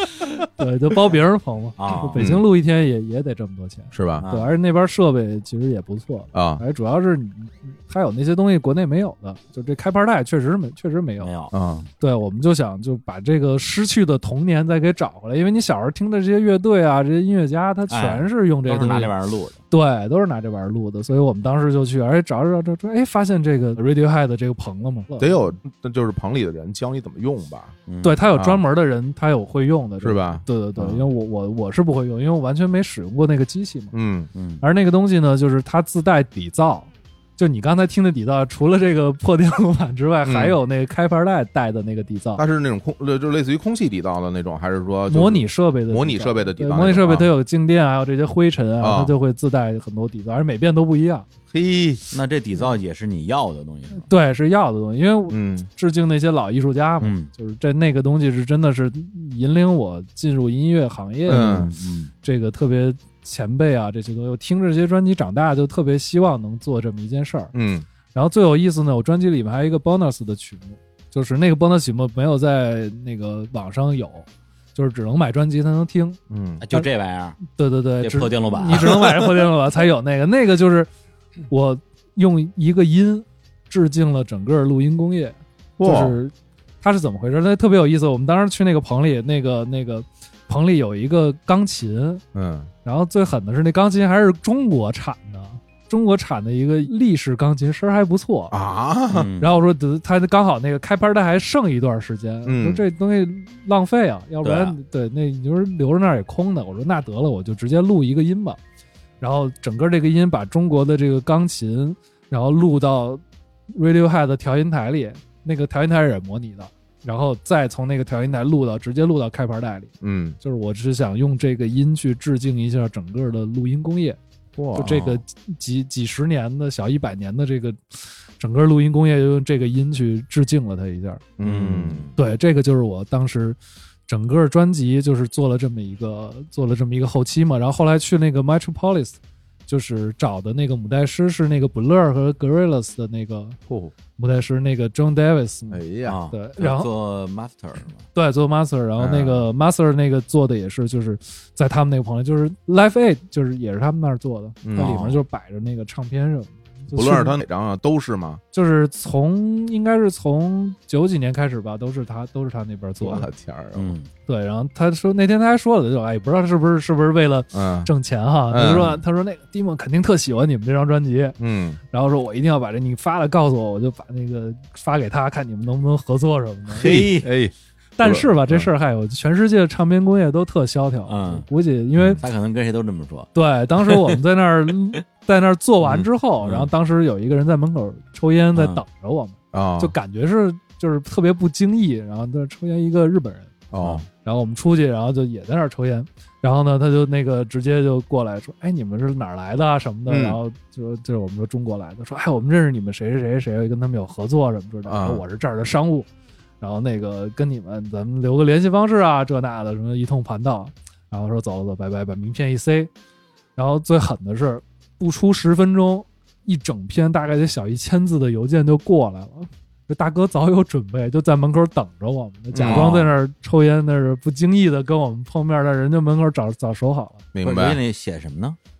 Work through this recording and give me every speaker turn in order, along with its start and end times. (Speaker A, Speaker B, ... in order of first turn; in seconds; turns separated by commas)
Speaker A: 0.6-11.3, Speaker B: 1.8-2.3, Speaker C: 2.2-2.4, Speaker C: 3.9-4.2, Speaker B: 4.2-4.5, Speaker C: 6.3-6.6, Speaker B: 11.2-11.6, Speaker C: 11.5-11.9, Speaker A: 12.0-19.1, Speaker B: 17.9-19.6, Speaker A: 19.7-25.4, Speaker C: 25.2-27.8, Speaker B: 27.9-28.3, Speaker A: 28.0-33.9, Speaker C: 28.4-28.6, Speaker C: 30.0-30.4, Speaker C: 33.9-34.3, Speaker B: 34.3-34.6, Speaker A: 34.6-42.4, Speaker C: 40.2-40.6, Speaker C: 42.4-47.3, Speaker A: 45.1-51.2, Speaker C: 48.8-49.1, Speaker C: 51.5-52.0, Speaker B: 52.1-54.1, Speaker A: 53.9-61.7, Speaker C: 55.3-55.7, Speaker B: 57.0-57.3, Speaker C: 61.3-61.7, Speaker B: 61.3-62.1, Speaker A: 62.2-67.5, Speaker C: 67.5-67.8, Speaker A: 68.1-76.2, Speaker C: 76.3-76.6, Speaker B: 76.6-77.4, Speaker A: 77.4-80.9, Speaker B: 78.0-79.1, Speaker C: 78.7-79.1, Speaker A: 81.5-92.2, Speaker C: 85.8-86.2, Speaker C: 92.3-92.7, Speaker A: 92.8-98.5, Speaker C: 98.5-99.3, Speaker B: 99.1-99.5, Speaker A: 99.4-108.6, Speaker C: 102.4-102.8, Speaker B: 104.4-104.8, Speaker A: 109.2-124.2, Speaker C: 120.0-120.4, Speaker C: 124.6-125.0, Speaker A: 124.7-131.2, Speaker B: 124.8-125.2, Speaker C: 131.4-132.1, Speaker B: 131.4-132.1, Speaker A: 132.2-143.6, Speaker C: 143.7-143.9, Speaker A: 144.2-146.9, Speaker C: 145.7-146.2, Speaker B: 146.1-148.1, Speaker A: 148.1-157.3, Speaker C: 149.0-149.5, Speaker C: 154.6-155.0, Speaker B: 154.8-155.2, Speaker C: 156.9-158.4, Speaker A: 158.5-163.3, Speaker C: 163.0-163.9, Speaker B: 163.7-164.1, Speaker A: 164.3-171.4, Speaker C: 167.5-167.9, Speaker C: 168.5-169.0, Speaker C: 171.4-171.8, Speaker A: 171.9-177.0, Speaker B: 176.8-177.3, Speaker C: 176.8-178.3, Speaker A: 178.0-182.2, Speaker B: 181.1-181.4, Speaker B: 182.2-184.2, Speaker A: 183.3-193.5, Speaker B: 185.8-186.7, Speaker B: 188.5-188.8, Speaker C: 189.5-189.9, Speaker C: 193.7-194.1, Speaker A: 194.2-206.1, Speaker C: 200.1-200.4, Speaker C: 204.8-205.2, Speaker A: 206.6-212.9, Speaker A: 213.6-227.2, Speaker C: 222.5-223.0, Speaker B: 222.6-223.1, Speaker C: 227.3-227.8, Speaker B: 227.4-228.6